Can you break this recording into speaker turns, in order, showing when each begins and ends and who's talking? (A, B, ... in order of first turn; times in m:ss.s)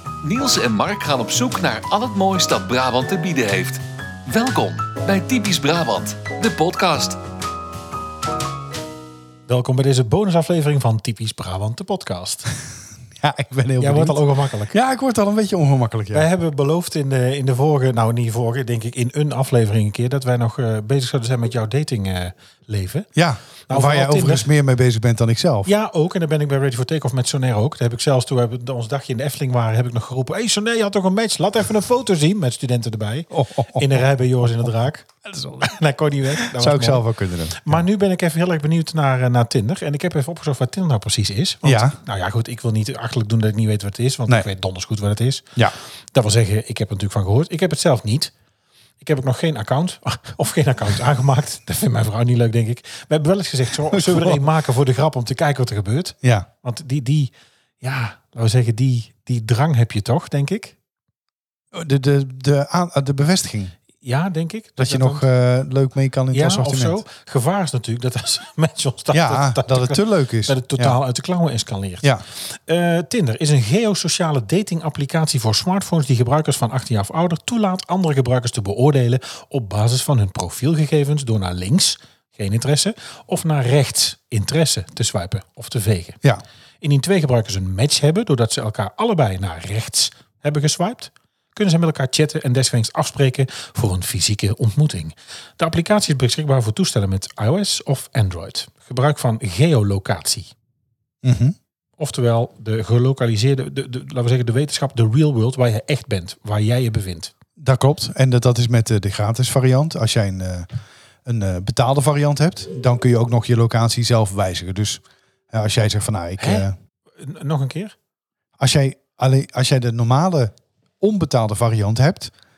0:00.2-0:07.2 A
0:09.5-0:12.5 B
0:13.2-0:16.3 C
0:13.8-0:14.8 B
0:16.1-0:23.1 B
0:23.2-0:25.7 C
0:23.7-0:24.5 B
0:25.6-0:35.1 B
0:33.3-0:34.0 C
0:35.2-0:35.7 C
0:35.6-0:45.6 B
0:36.4-0:37.8 C
0:41.6-0:42.0 C
0:46.1-0:48.3 B
0:49.0-1:00.8 B
0:53.9-0:54.4 C
0:56.2-0:56.5 C
1:01.7-1:03.7 C
1:04.0-1:05.3 B
1:04.8-1:07.0 C
1:06.3-1:26.2 B
1:09.1-1:11.0 C
1:26.8-1:40.5 B
1:41.2-1:41.6 C
1:42.0-1:47.3 B
1:47.6-1:50.7 C
1:51.3-1:56.7 C
1:56.4-1:56.7 B
1:57.2-1:58.0 B
1:58.6-2:02.3 C